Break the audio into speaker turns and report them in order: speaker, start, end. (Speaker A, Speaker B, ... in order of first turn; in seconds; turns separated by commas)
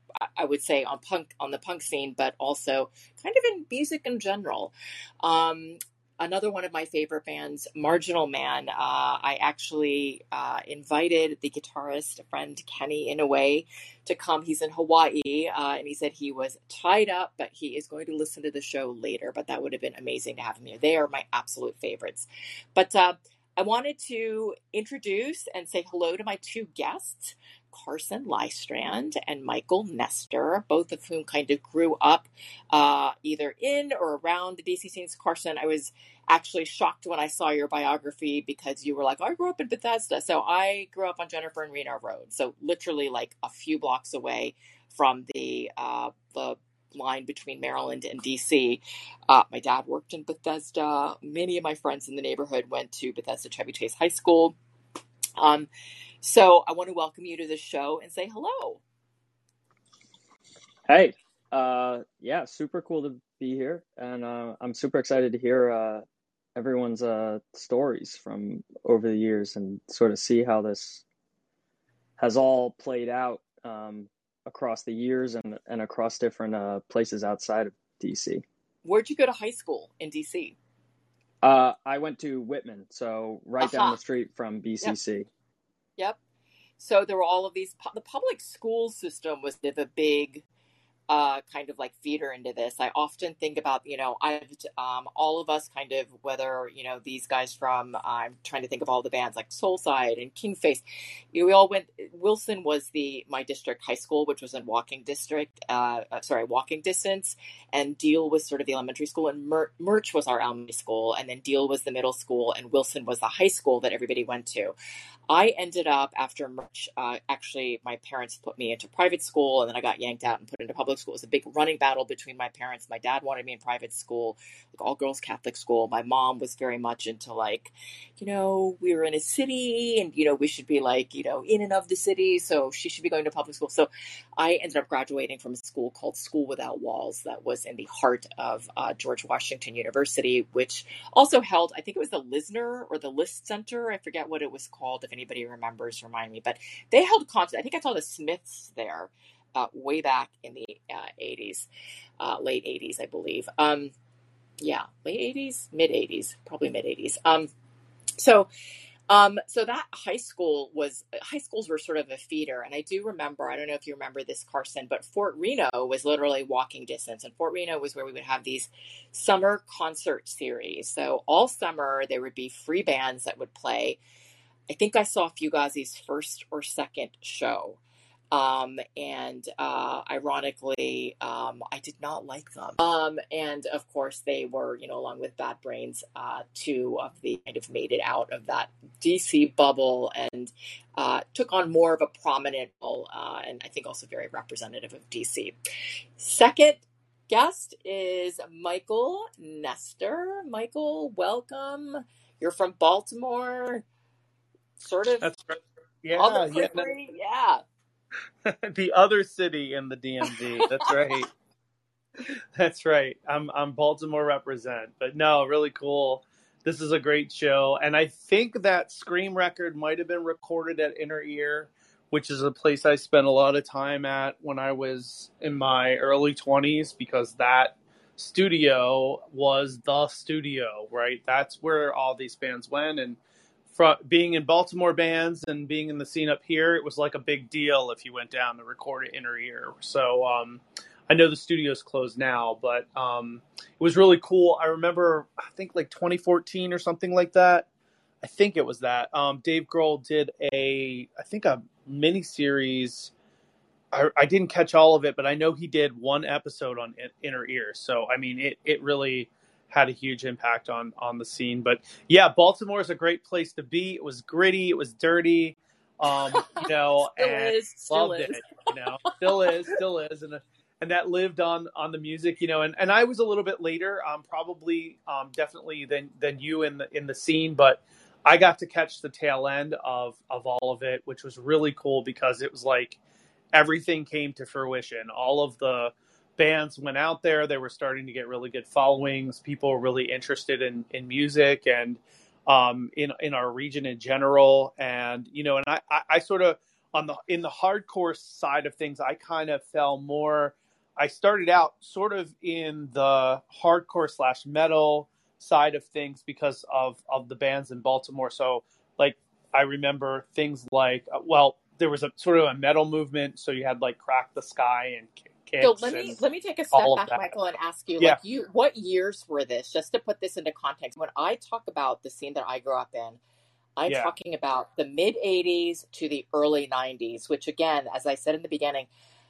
Speaker A: 0.2-54.6, Speaker A: 55.4-55.7, Speaker A: 56.2-58.8, Speaker B: 60.9-66.0, Speaker B: 66.5-71.0, Speaker B: 72.2-78.4, Speaker A: 78.8-80.6, Speaker B: 81.4-85.3, Speaker A: 83.6-84.0, Speaker A: 86.8-90.4, Speaker A: 91.1-114.8, Speaker A: 115.3-151.7, Speaker A: 152.2-153.9, Speaker A: 154.6-157.5, Speaker A: 158.2-158.5, Speaker A: 159.1-174.0, Speaker A: 174.7-177.8, Speaker A: 178.3-195.6, Speaker A: 196.2-203.9, Speaker A: 204.8-205.3, Speaker C: 205.2-206.9, Speaker A: 206.2-207.6, Speaker C: 208.4-211.3, Speaker C: 212.6-233.2, Speaker C: 233.7-247.7, Speaker C: 248.2-253.1, Speaker C: 253.9-283.0, Speaker A: 266.3-269.4, Speaker C: 283.5-316.2, Speaker A: 315.6-323.2, Speaker C: 316.7-317.2, Speaker A: 323.8-328.9